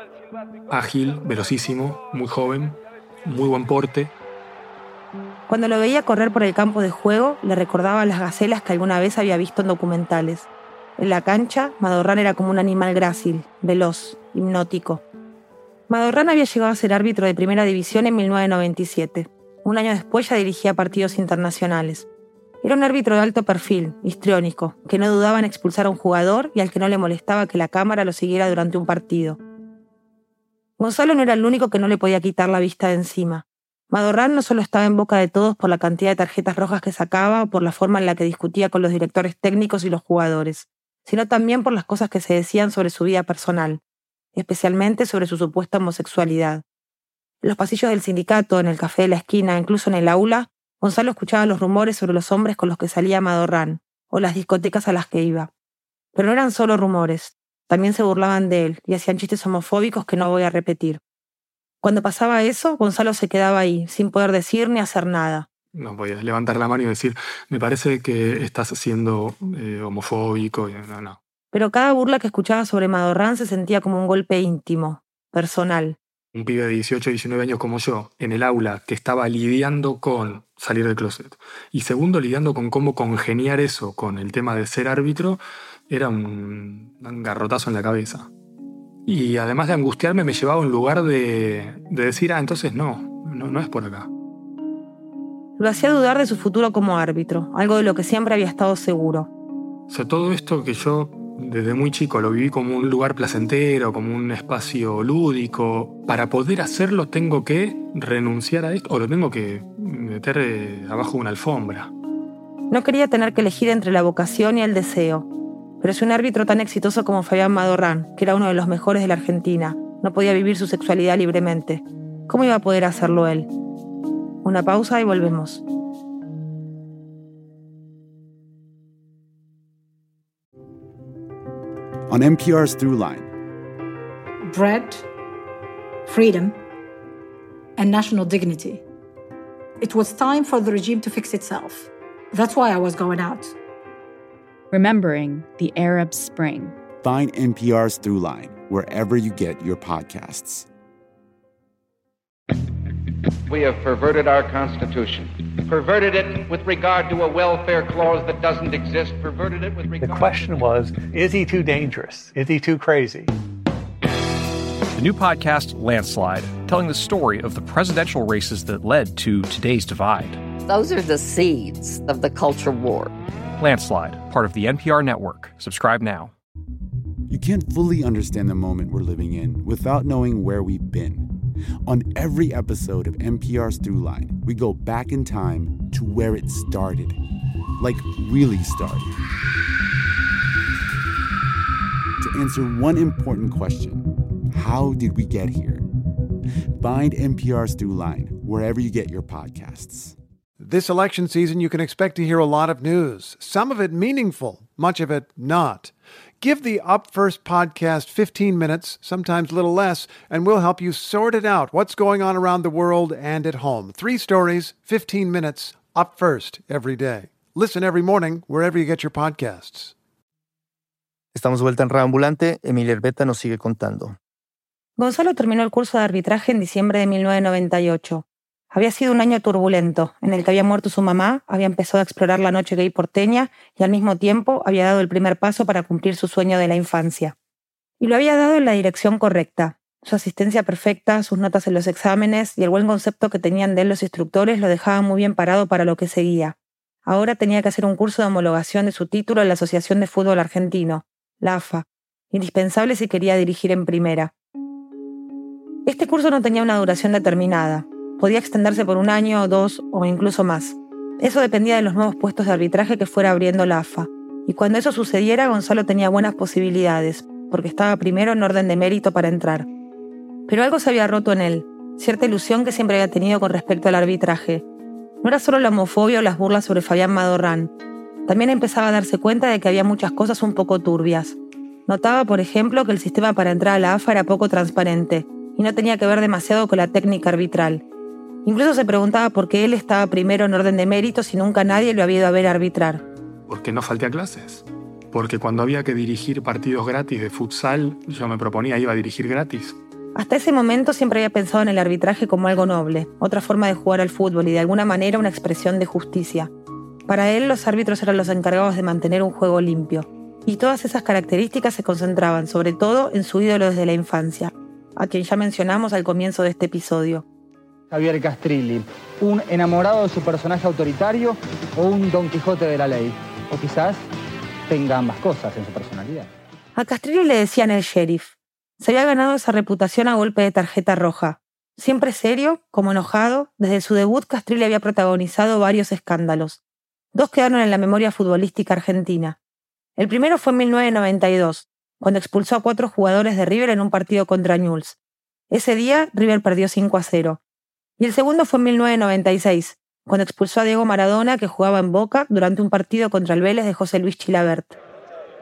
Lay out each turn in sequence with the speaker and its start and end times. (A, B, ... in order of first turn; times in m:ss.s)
0:00.7-0:04.1 A
0:05.5-0:15.0 B
0:15.9-0:22.1 B
0:22.6-0:29.4 B
0:30.8-0:43.8 B
0:44.4-0:46.6 B
0:47.4-0:55.5 B
0:56.2-1:01.0 B
1:01.8-1:05.5 B
1:05.7-1:11.2 A
1:11.5-1:16.0 B
1:16.3-1:28.3 A
1:29.1-1:34.1 A
1:35.6-1:39.3 B
1:39.9-1:51.9 A
1:52.7-1:55.3 B
1:55.8-2:03.5 B
2:04.4-2:05.6 B
2:12.1-2:13.3 C
2:14.5-2:15.1 D
2:16.1-2:16.6 D
2:17.8-2:18.8 D
2:19.8-2:23.5 D
2:24.7-2:26.8 E
2:27.0-2:30.7 C
2:33.5-2:40.3 F
2:40.0-2:43.3 G
2:45.0-2:50.4 H
2:50.6-2:53.1 I
2:53.6-2:56.3 H
2:57.3-3:01.3 C
3:01.9-3:07.2 C
3:07.8-3:09.2 C
3:12.2-3:15.8 C
3:16.8-3:20.2 C
3:20.6-3:40.0 J
3:41.3-3:44.2 K
3:45.0-3:57.4 B
3:58.0-4:14.3 B
4:15.8-4:29.7 B
4:30.5-4:34.6 B
4:35.2-4:37.7 B
4:38.3-4:47.8 B
4:48.4-4:53.0 B
4:53.5-4:59.8 A
5:00.2-5:06.5 B
5:07.1-5:17.2 B
5:17.9-5:24.0 L
5:24.7-5:26.3 L
5:26.8-5:36.6 B
5:37.1-5:39.4 B
5:40.0-5:45.0 B
5:45.5-5:47.4 B
5:48.0-5:54.8 B